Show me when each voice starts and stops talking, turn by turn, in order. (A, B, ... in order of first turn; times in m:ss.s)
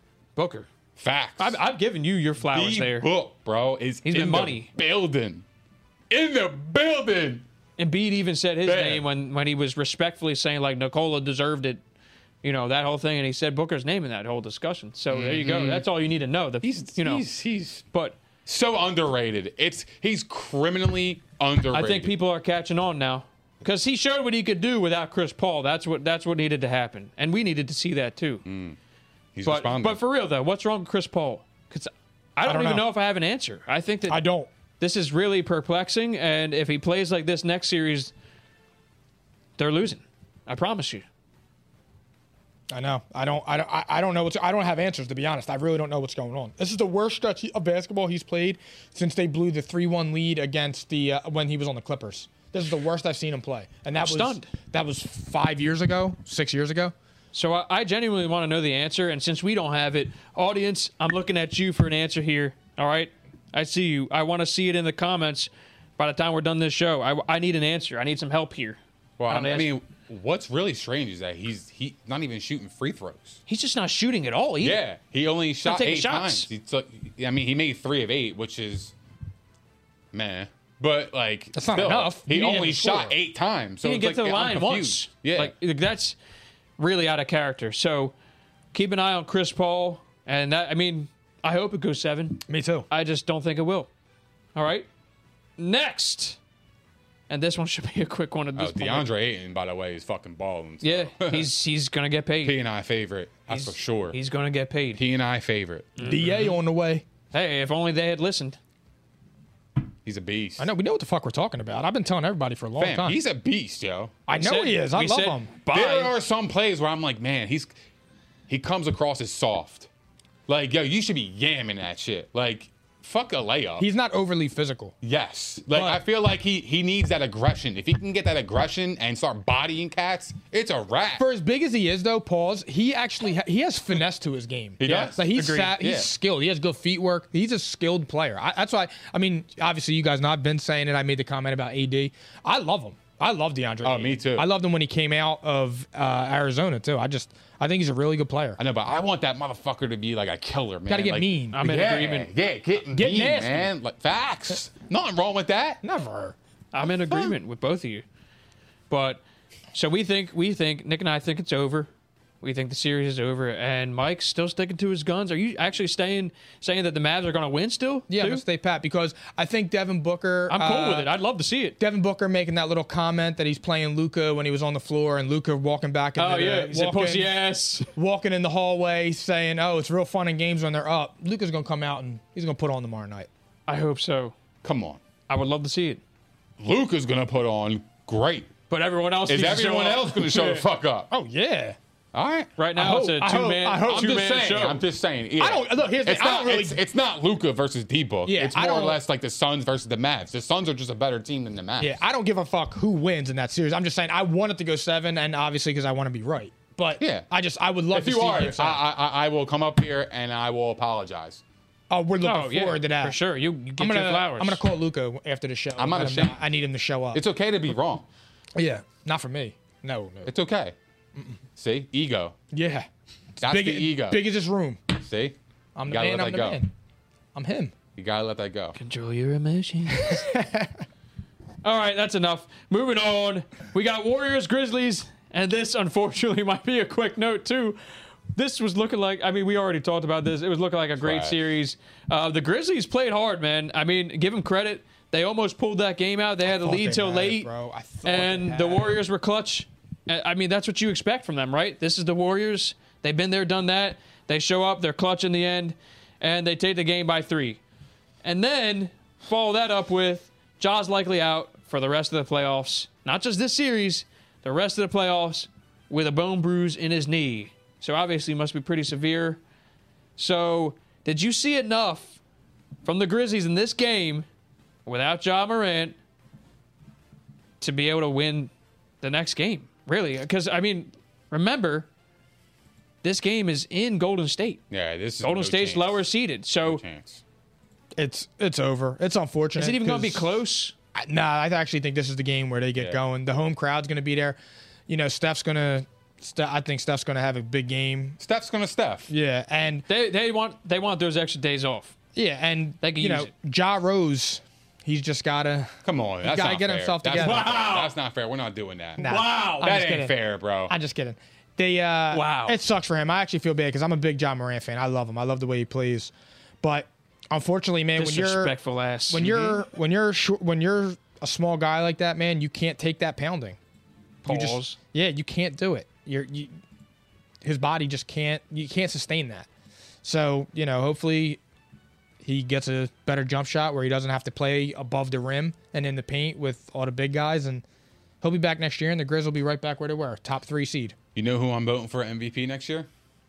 0:00.4-0:00.7 A
0:01.0-0:01.6 B
0:01.4-0:03.1 A
0:02.4-0:05.4 B
0:04.0-0:04.7 A
0:06.1-0:07.4 B
0:07.8-0:11.8 A
0:08.6-0:09.0 B
0:12.4-0:17.2 A
0:15.1-0:15.8 B
0:16.6-0:17.8 B
0:17.9-0:18.2 A
0:18.4-0:22.1 B
0:21.7-0:28.4 A
0:28.4-0:28.8 B
0:29.3-0:30.0 B
0:29.4-0:34.2 A
0:32.4-0:32.9 C
0:34.1-0:34.5 C
0:34.8-0:38.1 A
0:39.6-0:41.0 A
0:42.7-0:56.9 C
0:54.0-0:54.5 A
0:57.3-1:09.7 A
1:09.2-1:13.4 B
1:13.5-1:14.8 A
1:14.6-1:18.9 B
1:15.6-1:16.5 A
1:20.1-1:25.5 B
1:21.5-1:23.1 C
1:23.8-1:26.2 A
1:26.8-1:28.1 A
1:28.7-1:33.9 A
1:32.5-1:32.9 C
1:34.5-1:34.9 A
1:35.6-1:36.4 A
1:37.3-1:39.0 A
1:38.6-1:41.5 B
1:40.8-1:42.6 A
1:42.4-1:44.2 B
1:43.5-1:45.0 A
1:45.0-1:45.9 B
1:46.0-1:46.6 A
1:46.0-1:47.0 C
1:47.3-1:48.6 A
1:50.0-1:50.7 B
1:50.6-1:53.2 C
1:52.8-1:54.2 B
1:54.3-1:55.5 C
1:54.3-1:56.1 A
1:55.7-1:57.7 B
1:58.5-1:59.9 B
2:00.5-2:03.9 B
2:03.8-2:04.9 C
2:05.0-2:11.2 B
2:05.7-2:06.0 C
2:11.2-2:28.6 C
2:14.8-2:16.1 B
2:14.8-2:15.7 A
2:23.8-2:24.5 B
2:28.6-2:35.8 B
2:30.9-2:31.6 C
2:31.5-2:32.3 A
2:32.9-2:33.7 C
2:35.8-2:36.4 C
2:36.7-2:38.0 A
2:38.9-2:39.2 A
2:39.7-2:41.9 A
2:42.4-2:48.4 A
2:48.1-2:51.1 C
2:50.5-2:51.8 A
2:51.8-2:57.3 C
2:56.2-2:57.9 A
2:57.9-3:03.3 C
3:03.7-3:04.3 A
3:04.6-3:05.0 B
3:05.3-3:06.0 A
3:06.6-3:08.5 B
3:08.7-3:10.6 A
3:09.3-3:11.1 B
3:11.1-3:11.8 C
3:12.1-3:12.5 B
3:12.6-3:14.8 A
3:12.8-3:14.3 C
3:13.9-3:22.0 B
3:15.4-3:16.8 C
3:18.2-3:19.0 C
3:21.8-3:28.8 C
3:27.0-3:27.3 B
3:27.9-3:31.4 B
3:31.9-3:33.2 C
3:32.2-3:34.6 A
3:33.8-3:37.2 C
3:35.8-3:36.4 B
3:37.1-3:38.0 B
3:38.6-3:40.3 C
3:40.2-3:40.7 B
3:41.6-3:42.3 B
3:42.5-3:42.9 C
3:43.4-3:44.2 B
3:43.4-3:44.8 C
3:45.0-3:45.4 B
3:45.8-3:46.7 C
3:45.9-3:46.6 B
3:47.3-3:47.7 C
3:48.0-3:48.8 B
3:48.8-3:50.2 A
3:49.9-3:50.8 C
3:51.6-3:57.8 A
3:58.3-4:07.5 A
4:01.0-4:01.4 B
4:06.4-4:09.0 C
4:08.0-4:17.6 A
4:18.2-4:29.4 A
4:30.2-4:32.2 A
4:32.8-4:34.2 A
4:34.8-4:36.0 A
4:37.6-4:38.5 A
4:39.0-4:41.9 A
4:43.0-4:44.6 A
4:44.7-4:46.0 B
4:45.2-4:46.8 A
4:46.6-4:47.2 B
4:48.0-4:50.3 C
4:49.6-4:50.7 A
4:50.9-4:58.2 C
4:58.2-4:59.1 B
4:59.1-4:59.8 C
4:59.9-5:01.9 A
5:02.1-5:07.5 C
5:02.8-5:03.3 A
5:05.8-5:09.0 B
5:07.1-5:07.9 A
5:09.0-5:18.6 C
5:09.0-5:09.7 A
5:09.6-5:10.7 B
5:12.1-5:12.6 A
5:18.0-5:19.6 A
5:19.1-5:23.6 C
5:24.2-5:24.8 A
5:24.2-5:26.5 C
5:27.4-5:29.5 C
5:30.0-5:31.4 C
5:32.2-5:37.6 C
5:38.2-5:41.0 C
5:41.1-5:42.9 B